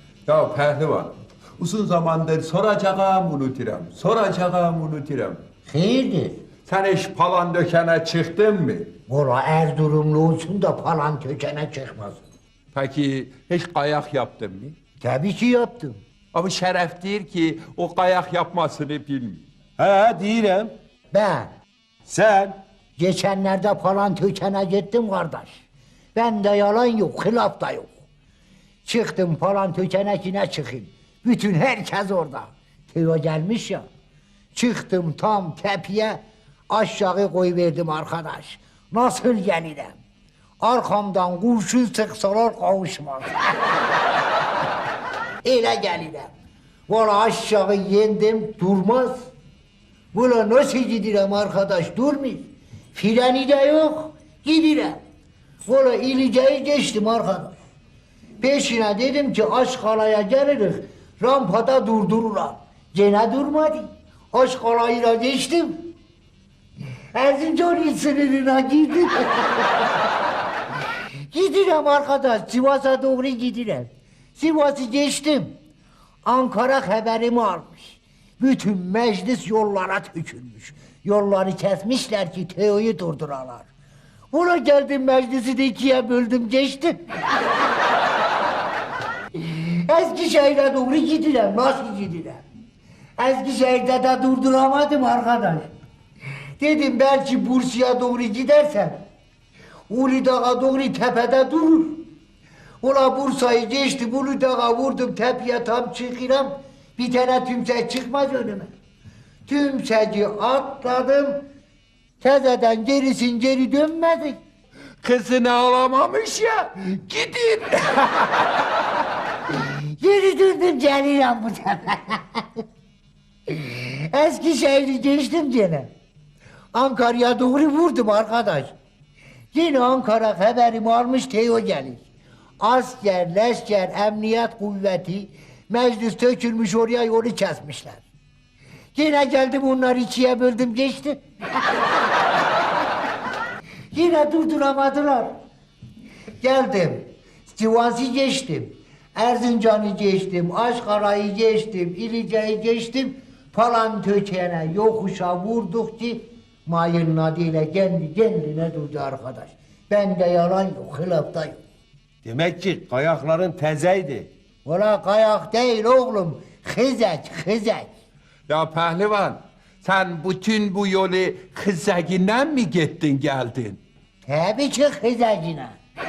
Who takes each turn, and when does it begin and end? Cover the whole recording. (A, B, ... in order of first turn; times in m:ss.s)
0:00.3-0:05.4 A
0:05.7-0:06.4 B
0:06.7-0:08.9 A
0:09.1-0:12.2 B
0:12.7-0:14.8 A
0:15.0-0:16.0 B
0:16.3-0:19.5 A
0:19.8-0:20.7 C
0:21.1-0:21.5 B
0:22.0-0:22.6 C
0:23.0-0:25.6 B
0:26.2-0:27.9 B
0:28.8-0:33.8 B
0:34.5-0:40.0 B
0:40.6-0:43.4 B
0:45.4-0:46.3 B
0:46.9-0:49.3 B
0:50.1-0:55.0 B
0:55.7-0:57.6 B
0:58.4-1:05.9 B
1:07.1-1:09.9 B
1:11.3-1:15.5 B
1:16.2-1:23.6 B
1:24.3-1:27.0 B
1:29.4-1:32.4 B
1:33.2-1:35.7 B
1:36.6-1:39.0 B
1:39.9-1:42.0 B
1:42.8-1:48.7 B
1:49.4-1:51.4 B
1:52.2-1:54.4 B
1:55.0-1:58.6 A
2:00.0-2:02.6 B
2:03.5-2:05.9 B
2:06.7-2:08.7 B
2:09.5-2:12.0 B
2:12.6-2:18.0 B
2:19.0-2:21.2 B
2:23.9-2:25.3 B
2:26.4-2:41.6 B
2:42.2-2:44.3 C
2:44.6-2:47.9 B
2:48.5-2:53.8 A
2:54.2-2:55.8 B